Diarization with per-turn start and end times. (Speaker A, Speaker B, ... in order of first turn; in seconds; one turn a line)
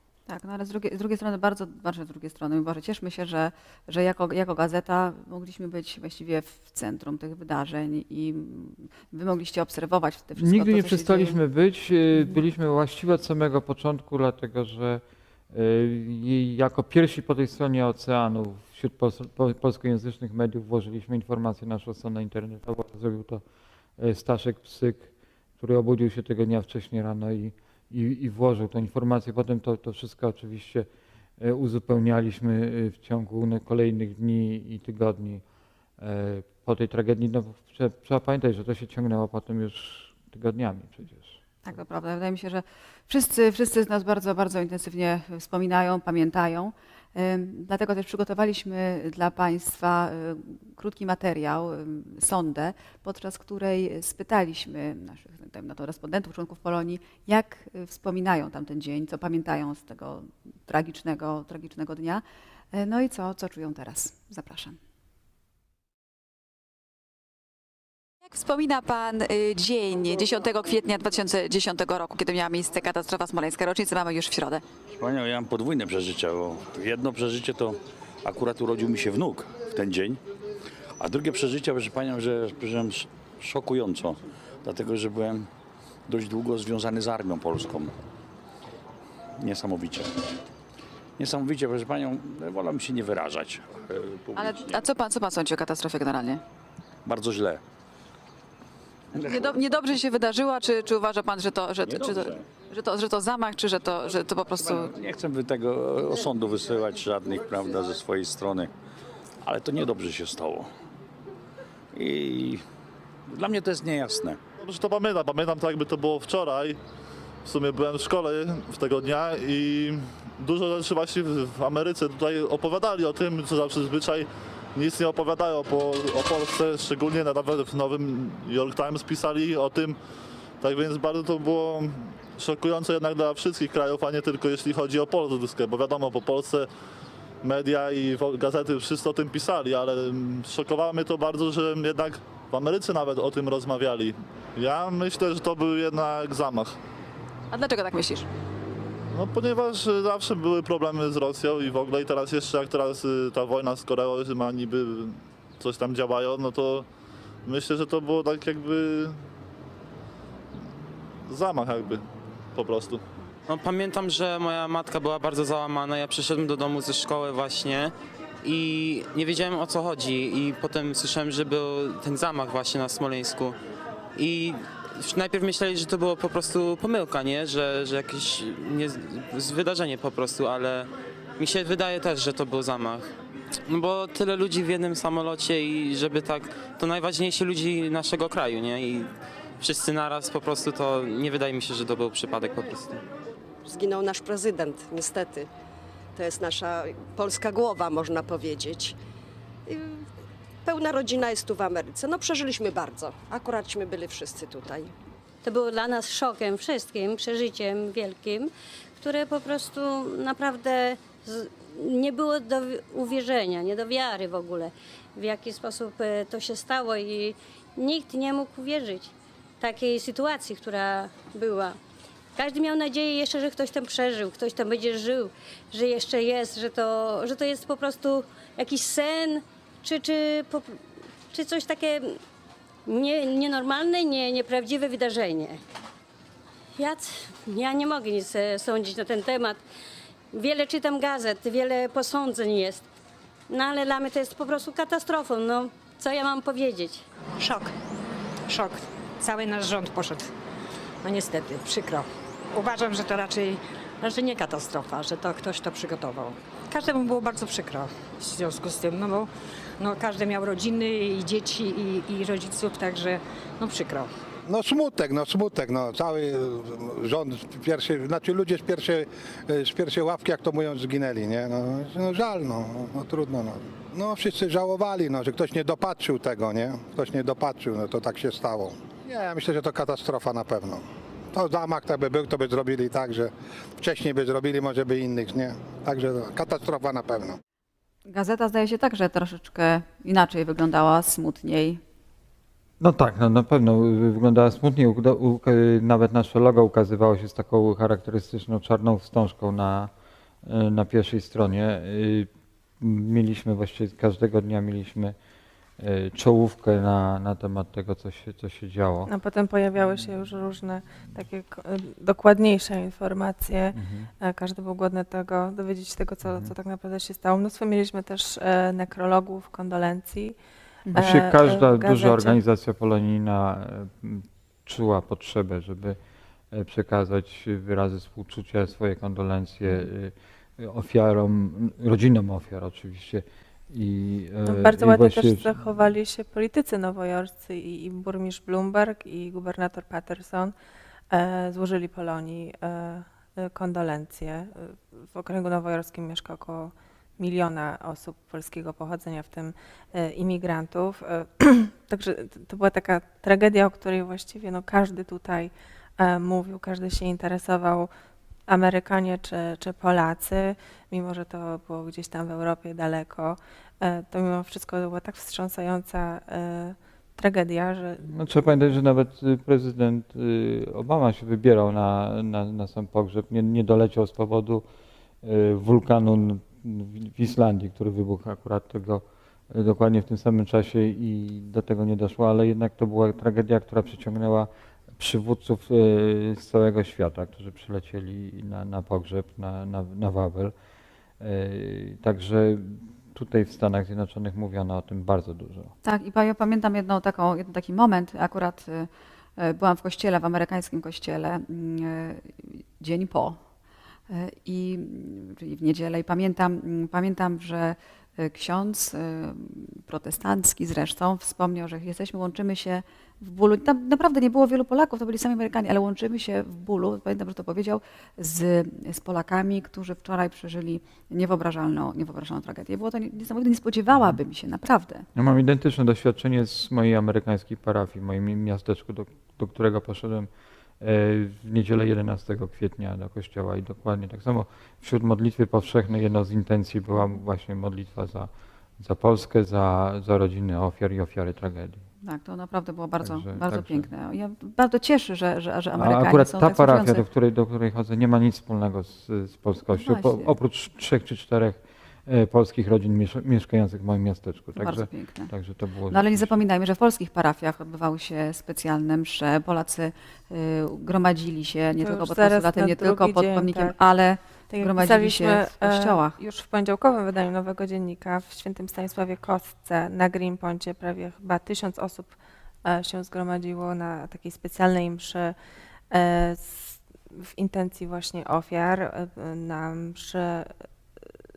Speaker A: 0.3-11.4
Speaker B: 10.4-23.4
Speaker B: 24.0-30.9
Speaker B: 31.4-35.4
Speaker B: 36.0-41.4
Speaker A: 41.6-64.8
Speaker A: 68.2-74.6
Speaker C: 74.9-80.2
Speaker C: 81.0-85.5
Speaker C: 86.1-87.9
Speaker C: 89.4-90.2
Speaker C: 91.2-94.8
Speaker A: 94.3-96.4
Speaker C: 97.0-97.6
Speaker C: 99.2-99.6
Speaker A: 99.2-105.0
Speaker C: 101.8-102.5
Speaker C: 104.5-108.7
Speaker C: 109.4-110.7
Speaker C: 111.9-112.6
Speaker C: 113.3-114.4
Speaker D: 114.6-116.8
Speaker D: 117.5-130.0
Speaker D: 130.6-136.7
Speaker D: 137.4-146.8
Speaker A: 147.5-148.3
Speaker D: 149.1-156.9
Speaker D: 157.4-159.2
Speaker D: 161.3-162.0
Speaker D: 162.6-163.0
Speaker E: 163.5-173.6
Speaker E: 174.2-183.1
Speaker E: 183.7-193.0
Speaker F: 193.7-195.5
Speaker F: 196.2-198.9
Speaker F: 199.7-200.0
Speaker F: 200.7-204.9
Speaker G: 205.4-208.5
Speaker G: 209.0-221.8
Speaker G: 222.4-230.7
Speaker G: 231.3-232.2
Speaker G: 232.9-235.6
Speaker G: 236.8-239.6
Speaker G: 240.3-242.8
Speaker G: 243.5-247.0
Speaker H: 247.4-247.7
Speaker H: 248.5-250.3
Speaker H: 251.0-264.1
Speaker I: 264.5-287.4
Speaker A: 288.1-291.8
Speaker B: 292.8-299.9
Speaker B: 300.4-302.3
Speaker B: 302.8-305.1
Speaker B: 305.8-309.1
Speaker J: 309.1-320.4
Speaker B: 313.7-314.1
Speaker B: 316.2-316.5
Speaker J: 320.9-322.4
Speaker B: 320.9-326.0
Speaker B: 326.5-335.6
Speaker J: 334.5-340.6
Speaker J: 341.1-357.9
Speaker J: 358.5-368.1
Speaker B: 368.1-374.6
Speaker B: 375.2-390.5
Speaker B: 391.2-395.7
Speaker A: 395.8-403.4
Speaker A: 404.1-425.1
Speaker B: 425.1-430.3
Speaker B: 430.8-441.8
Speaker A: 442.0-447.1
Speaker B: 443.0-443.9
Speaker B: 445.8-456.4
Speaker A: 449.7-450.4
Speaker A: 454.6-455.3
Speaker A: 455.9-466.2
Speaker J: 461.7-463.8
Speaker J: 464.5-475.4
Speaker J: 475.9-480.7